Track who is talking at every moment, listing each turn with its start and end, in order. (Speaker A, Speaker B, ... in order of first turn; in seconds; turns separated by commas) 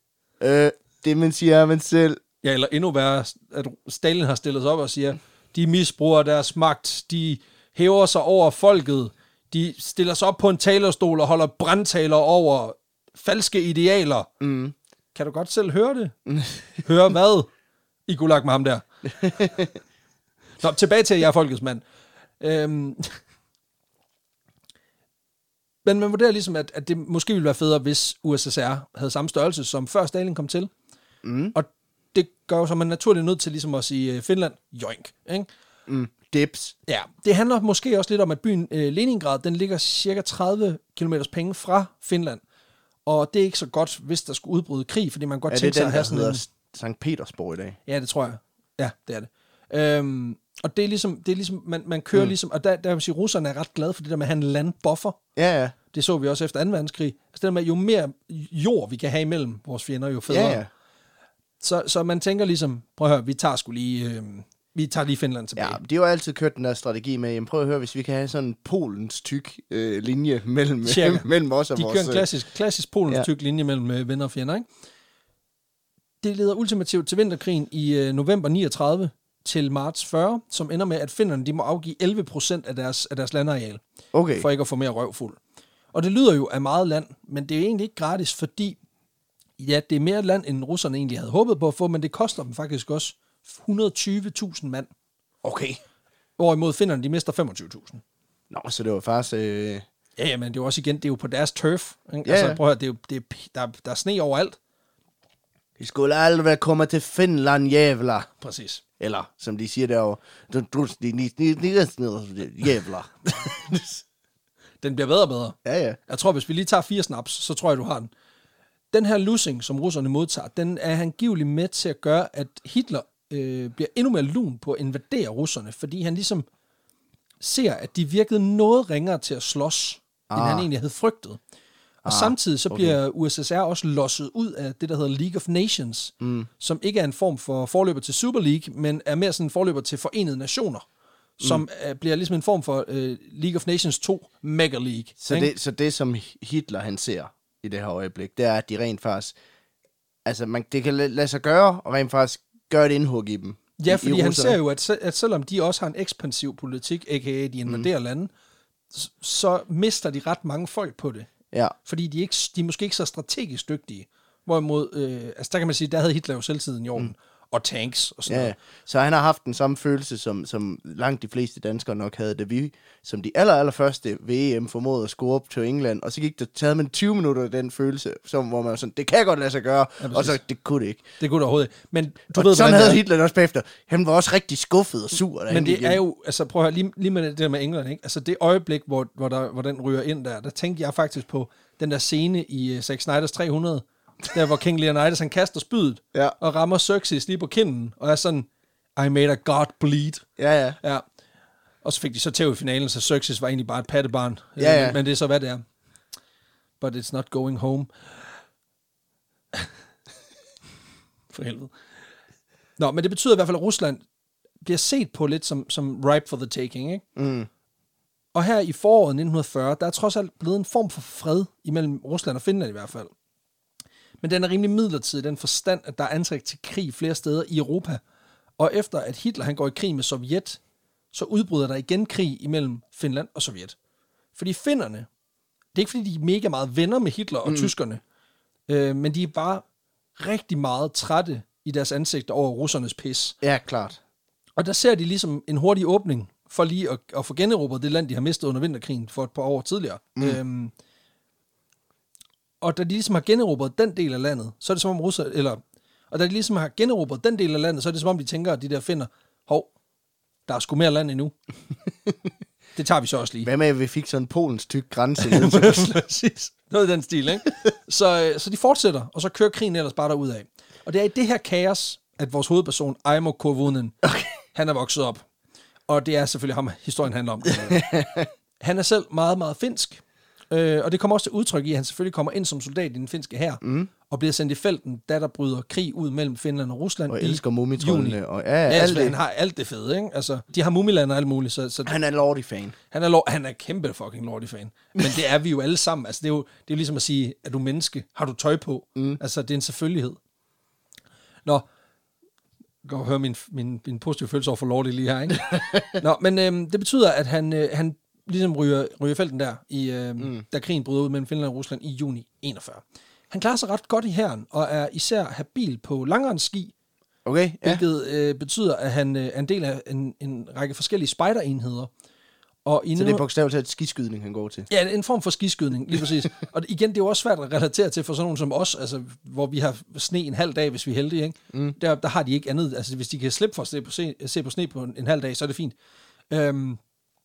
Speaker A: 0.4-2.2, Speaker B: 2.4-14.3, Speaker A: 14.4-14.8, Speaker B: 15.1-16.1, Speaker A: 16.3-16.6, Speaker B: 16.8-17.5, Speaker B: 18.1-18.9, Speaker A: 19.2-19.7, Speaker B: 20.6-21.8, Speaker B: 22.4-23.1, Speaker B: 25.9-30.7, Speaker A: 31.2-31.6, Speaker B: 31.5-35.5, Speaker A: 35.9-36.8, Speaker B: 36.9-42.4, Speaker B: 43.1-46.4, Speaker A: 45.5-47.8, Speaker B: 47.9-55.2, Speaker A: 55.4-55.8, Speaker B: 55.9-60.6, Speaker A: 60.3-60.7, Speaker B: 61.6-65.8, Speaker A: 65.6-72.3, Speaker B: 70.8-74.7, Speaker B: 76.2-83.8, Speaker A: 84.1-84.5, Speaker B: 84.4-85.4, Speaker B: 85.9-88.8, Speaker B: 89.6-94.9, Speaker A: 95.4-95.8, Speaker B: 96.4-98.0, Speaker A: 98.5-99.8, Speaker B: 100.2-104.6, Speaker A: 102.2-102.6, Speaker A: 105.8-108.3, Speaker B: 108.4-108.8, Speaker A: 109.0-114.0, Speaker B: 114.8-118.1, Speaker A: 115.7-116.0, Speaker B: 118.9-126.5, Speaker B: 127.4-131.4, Speaker A: 130.3-130.7, Speaker B: 132.0-140.8, Speaker A: 132.1-133.0, Speaker A: 136.2-136.5, Speaker B: 141.4-145.5, Speaker A: 145.2-149.3, Speaker A: 150.2-154.6, Speaker B: 153.8-158.3, Speaker B: 158.9-161.3, Speaker B: 161.8-168.6, Speaker A: 168.3-181.1, Speaker B: 180.0-180.4, Speaker B: 181.2-183.0, Speaker A: 182.3-186.0, Speaker B: 185.5-200.2, Speaker A: 200.4-200.8, Speaker B: 201.8-205.6, Speaker A: 204.6-205.0, Speaker B: 206.8-207.9, Speaker B: 211.3-211.7, Speaker B: 212.8-214.0, Speaker B: 214.6-217.1, Speaker A: 217.2-217.5, Speaker B: 218.3-223.1, Speaker B: 224.2-228.0, Speaker B: 228.6-230.6, Speaker B: 231.1-233.8, Speaker B: 234.4-235.1, Speaker B: 235.8-238.0, Speaker A: 237.4-237.7, Speaker B: 238.7-239.6, Speaker B: 240.2-243.4, Speaker A: 243.4-244.0, Speaker B: 244.6-250.7, Speaker B: 252.6-259.7, Speaker B: 260.5-261.4, Speaker B: 262.8-263.5, Speaker A: 263.4-265.9, Speaker B: 265.2-273.9, Speaker A: 274.0-274.3, Speaker B: 274.5-275.2, Speaker B: 275.9-277.9, Speaker A: 277.6-278.3, Speaker B: 278.6-291.9, Speaker A: 283.6-283.9, Speaker A: 287.1-289.1, Speaker A: 291.9-292.8, Speaker B: 292.9-300.2, Speaker B: 302.8-316.7, Speaker A: 305.5-305.8, Speaker A: 317.2-317.8, Speaker B: 317.6-321.9, Speaker B: 322.6-323.2, Speaker A: 323.0-324.7, Speaker B: 324.7-335.8, Speaker B: 336.3-336.8